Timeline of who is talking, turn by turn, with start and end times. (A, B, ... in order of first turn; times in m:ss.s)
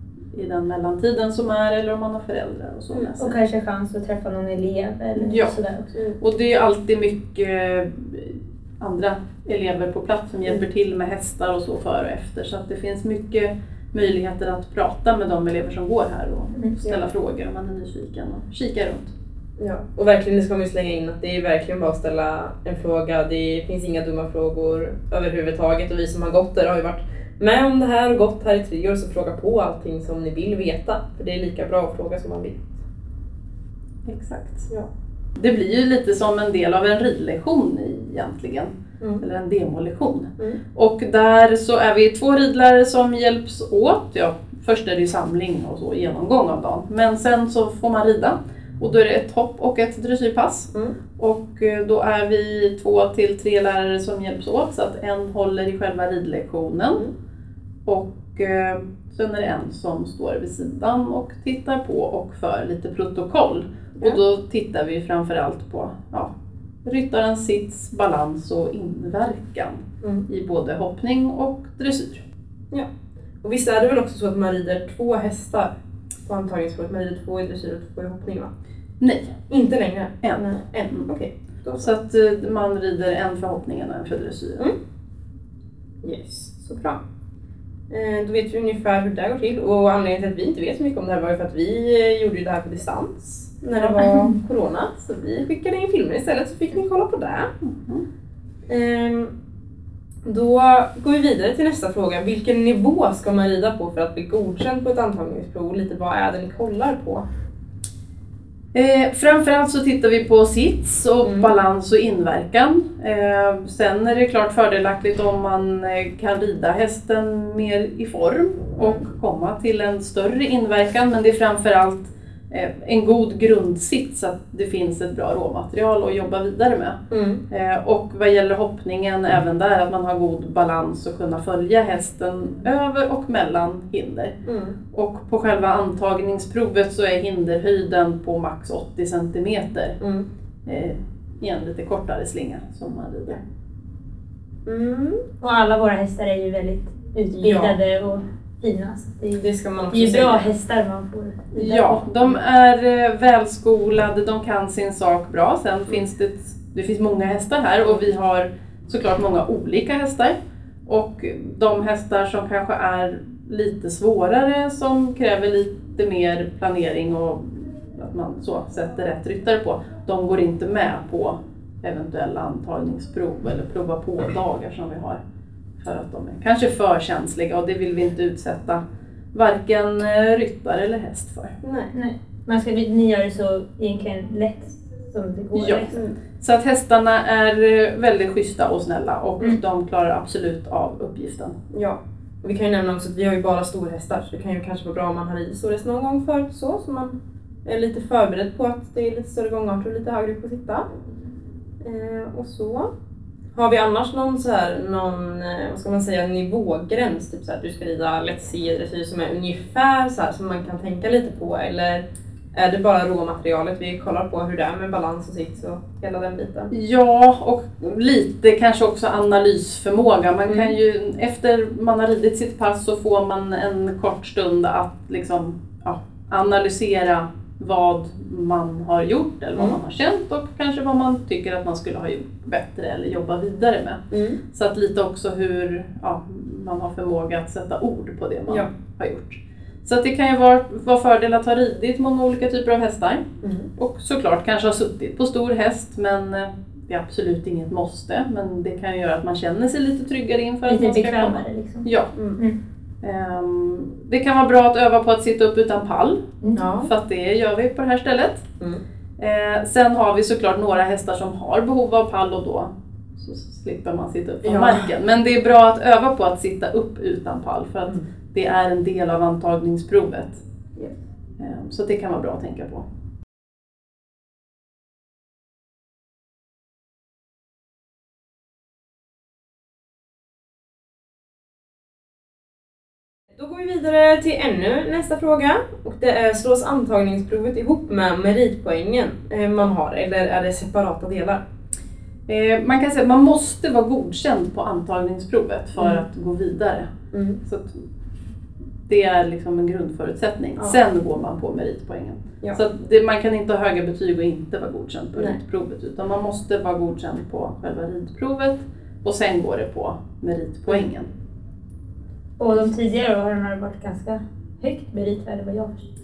0:00.3-0:03.4 A
0:03.2-0:05.9 B
0:05.2-0:05.6 A
0:06.2-0:19.1 A
0:19.6-0:32.8 C
0:34.1-0:34.7 A
0:35.4-0:57.1 A
0:57.8-1:06.3 A
1:06.8-1:12.2 A
1:13.4-1:15.7 C
1:16.2-1:18.5 C
1:19.0-1:19.4 A
1:19.5-1:21.9 C
1:20.2-1:21.1 A
1:21.8-1:24.7 A
1:26.0-1:27.0 C
1:27.9-1:37.5 C
1:33.8-1:34.1 A
1:37.6-1:38.0 A
1:38.7-1:39.3 C
1:40.2-1:47.2 C
1:48.7-2:14.4 A
1:51.2-1:51.5 C
2:07.1-2:07.4 C
2:14.4-2:14.8 C
2:14.9-2:20.0 A
2:20.6-2:23.4 A
2:24.6-2:25.2 C
2:25.4-2:32.0 B
2:27.3-2:27.8 C
2:29.4-2:30.4 C
2:31.5-2:55.2 A
2:55.8-2:58.8 A
2:59.3-3:01.6 A
3:01.6-3:01.9 C
3:01.9-3:06.0 B
3:05.5-3:11.6 A
3:11.7-3:20.9 C
3:21.8-3:22.9 C
3:23.5-3:36.7 C
3:36.7-4:03.2 A
3:40.5-3:40.7 C
3:54.1-3:54.4 C
4:03.4-4:03.7 C
4:03.8-4:12.1 A
4:10.7-4:12.6 B
4:12.1-4:12.4 C
4:13.0-4:18.5 A
4:16.6-4:16.9 C
4:19.2-4:30.4 A
4:24.4-4:24.9 C
4:31.4-4:32.8 A
4:43.4-4:51.4 C
4:52.3-4:56.9 A
4:57.1-4:57.4 C
4:57.4-4:57.8 A
4:58.9-5:11.1 A
5:12.4-5:15.8 B